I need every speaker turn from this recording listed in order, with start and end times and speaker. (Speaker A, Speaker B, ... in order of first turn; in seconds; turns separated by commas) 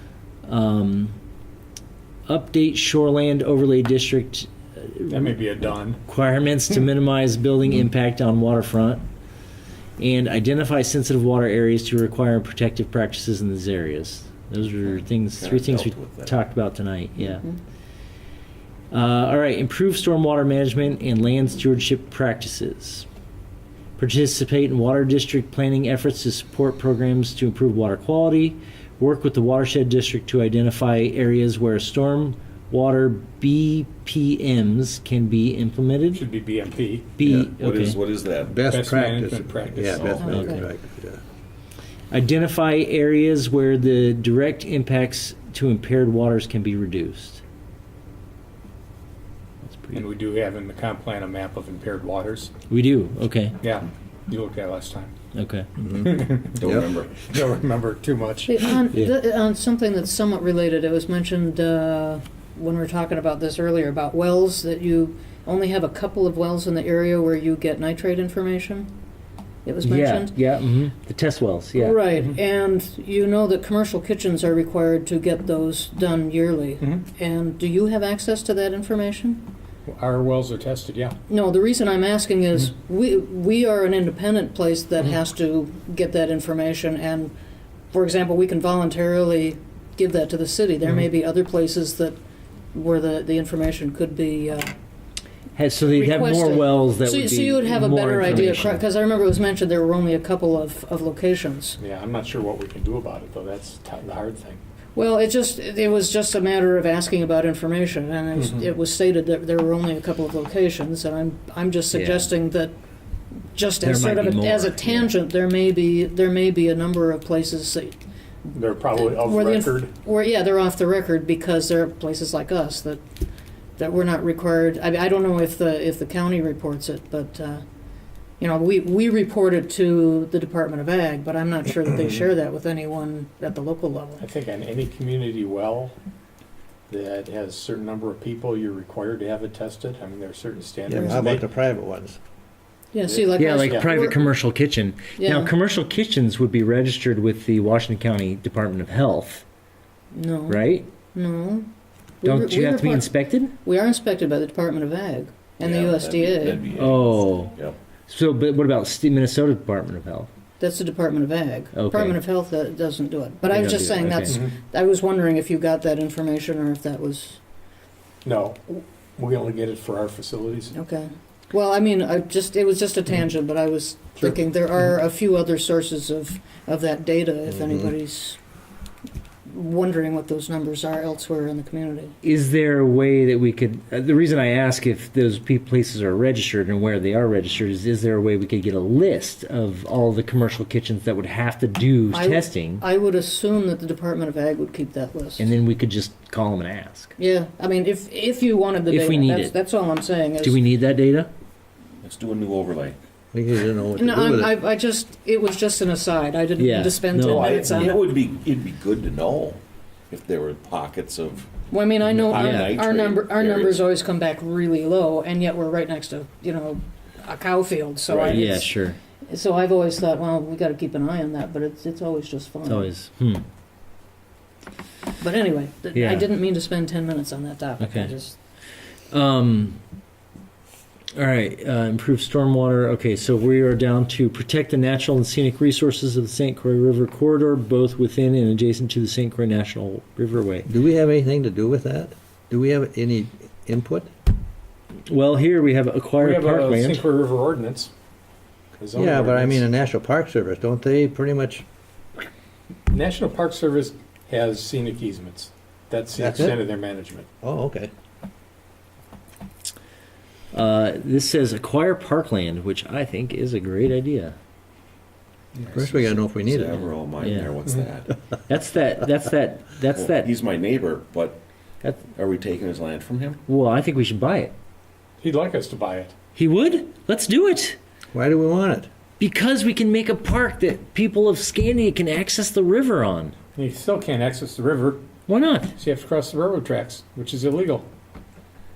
Speaker A: 0.5-1.2, Speaker A: 2.3-5.4, Speaker B: 5.1-6.0, Speaker A: 6.1-9.0, Speaker A: 10.0-17.4, Speaker C: 15.3-16.3, Speaker D: 17.2-17.6, Speaker A: 18.9-23.1, Speaker A: 24.0-36.2, Speaker B: 36.1-37.1, Speaker A: 37.2-38.0, Speaker C: 37.3-38.6, Speaker E: 38.5-41.2, Speaker B: 38.7-40.1, Speaker C: 39.9-40.5, Speaker D: 40.1-40.6, Speaker A: 40.3-40.6, Speaker A: 42.1-47.4, Speaker A: 49.6-50.0, Speaker B: 49.9-52.5, Speaker A: 52.7-53.6, Speaker B: 53.6-55.1, Speaker A: 55.3-55.7, Speaker E: 55.8-56.9, Speaker B: 56.0-56.6, Speaker C: 56.6-57.3, Speaker B: 57.3-58.7, Speaker D: 58.5-68.9, Speaker D: 69.7-70.3, Speaker A: 69.8-72.0, Speaker D: 71.8-79.5, Speaker B: 76.8-77.1, Speaker B: 79.9-81.2, Speaker D: 81.3-87.3, Speaker D: 87.9-92.2, Speaker D: 92.7-94.7, Speaker A: 95.6-98.8, Speaker D: 95.8-101.8, Speaker B: 101.8-104.6, Speaker D: 105.0-112.7, Speaker B: 108.4-108.7, Speaker A: 111.9-112.3, Speaker D: 113.5-118.0, Speaker A: 113.8-115.1, Speaker B: 118.5-120.0, Speaker D: 118.9-123.0, Speaker D: 123.8-127.6, Speaker D: 128.4-134.2, Speaker B: 134.2-135.9, Speaker B: 136.9-141.4, Speaker E: 140.9-142.2, Speaker D: 142.9-144.2, Speaker B: 143.0-144.1, Speaker A: 143.3-149.4, Speaker D: 145.2-145.5, Speaker D: 150.1-151.7, Speaker A: 150.5-150.9, Speaker D: 152.2-153.1, Speaker A: 152.2-153.5, Speaker D: 153.6-156.7, Speaker C: 155.6-157.8, Speaker A: 156.8-157.6, Speaker A: 158.1-160.3, Speaker D: 160.6-167.4, Speaker A: 161.8-162.2, Speaker A: 163.5-164.4, Speaker B: 164.3-164.5, Speaker B: 168.2-170.8, Speaker D: 170.7-178.4, Speaker E: 177.6-177.9, Speaker D: 179.5-182.2, Speaker A: 182.2-192.8, Speaker D: 192.1-195.5, Speaker A: 195.4-197.2, Speaker D: 197.2-200.6, Speaker A: 198.9-199.6, Speaker A: 200.4-201.3, Speaker C: 202.0-203.0, Speaker E: 203.3-204.6, Speaker D: 204.0-208.2, Speaker A: 206.6-207.9, Speaker C: 207.2-213.9, Speaker D: 211.7-218.7, Speaker B: 212.3-212.7, Speaker A: 212.3-212.7, Speaker C: 218.1-218.6, Speaker A: 218.2-219.0, Speaker D: 219.3-222.9, Speaker A: 222.7-223.4, Speaker D: 225.2-228.4, Speaker A: 225.9-226.3, Speaker A: 227.8-228.1, Speaker A: 229.1-229.8, Speaker A: 231.2-240.7, Speaker E: 240.7-244.1, Speaker A: 245.1-247.0, Speaker B: 246.2-247.9, Speaker B: 248.8-249.7, Speaker E: 248.9-251.7, Speaker B: 252.9-257.3, Speaker E: 256.2-256.6, Speaker E: 257.4-257.9, Speaker A: 260.5-264.4, Speaker E: 265.7-266.8, Speaker C: 265.8-268.1, Speaker A: 267.2-267.5, Speaker A: 268.5-270.3, Speaker C: 269.9-271.4, Speaker C: 272.0-273.4, Speaker A: 273.5-274.5, Speaker B: 275.2-276.1, Speaker A: 276.4-277.8, Speaker E: 278.1-278.9, Speaker A: 279.2-283.4, Speaker B: 283.6-285.0, Speaker A: 285.3-285.7, Speaker B: 285.8-287.9